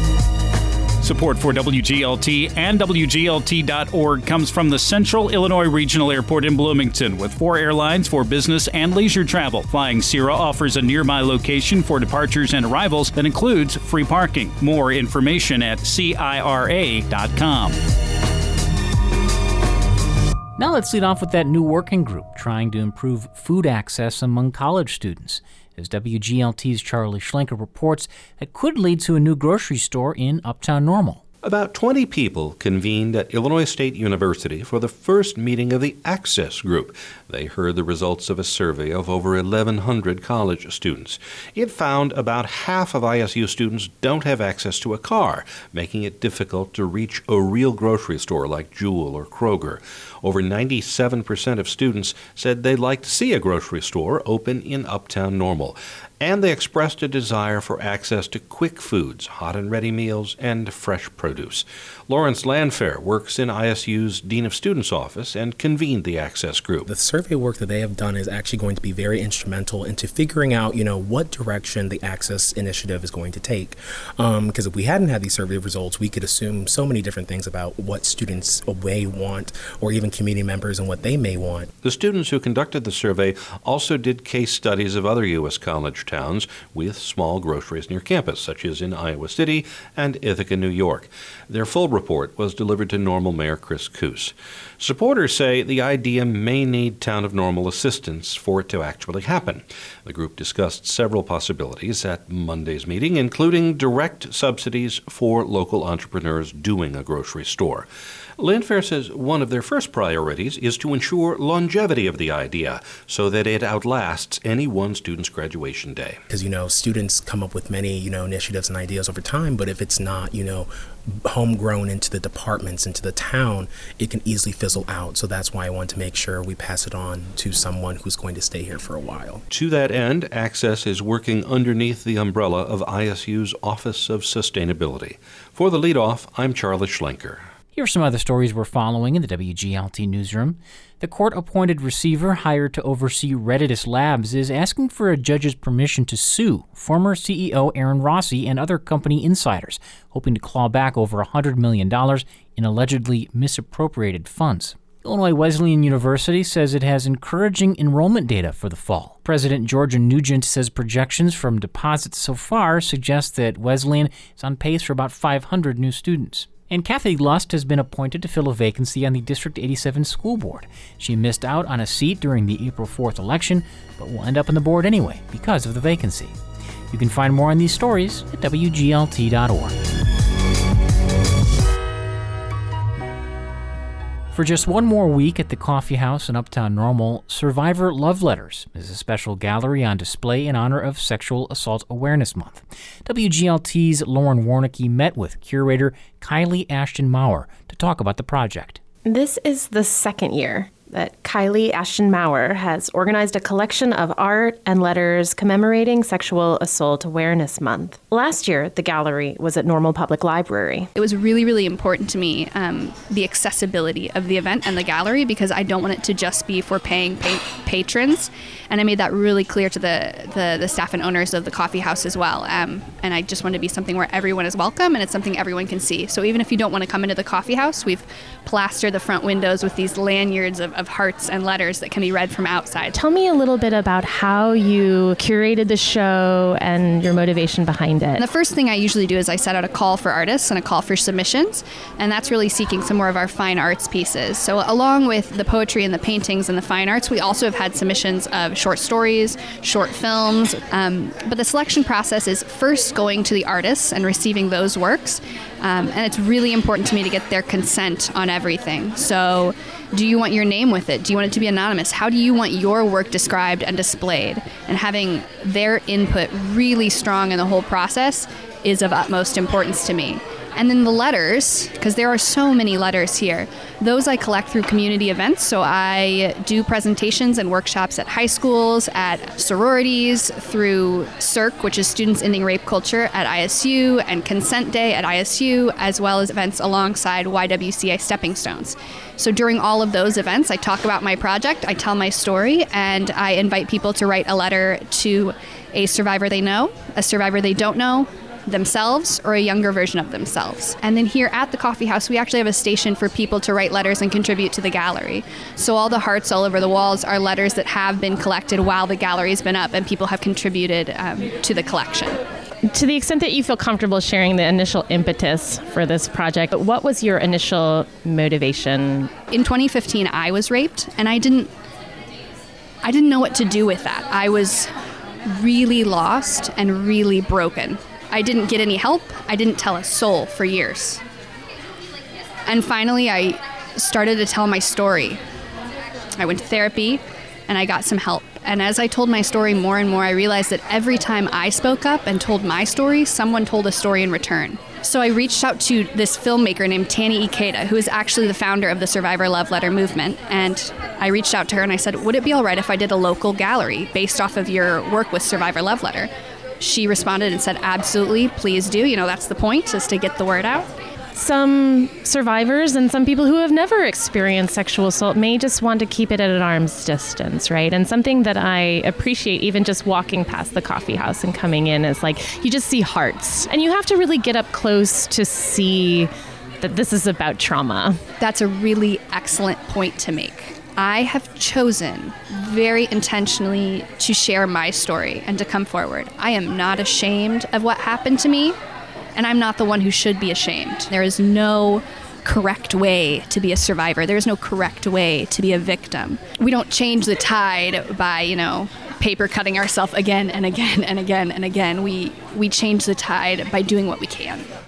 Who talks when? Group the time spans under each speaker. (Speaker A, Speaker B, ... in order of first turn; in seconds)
Speaker A: 1.0-17.8
Speaker B: 20.6-31.2, 137.7-176.3, 176.9-179.7, 184.3-198.8
Speaker C: 31.4-66.9, 81.8-107.9, 108.4-116.2, 129.5-137.4
Speaker D: 66.9-81.7, 116.3-120.7, 121.3-129.4
Speaker E: 199.1-210.9, 232.9-238.2, 312.7-319.1, 361.1-378.0
Speaker F: 211.0-233.0, 238.2-312.2, 319.3-321.5, 322.8-324.7, 325.3-331.0, 332.5-335.2, 336.2-360.7, 378.2-388.6, 389.2-404.5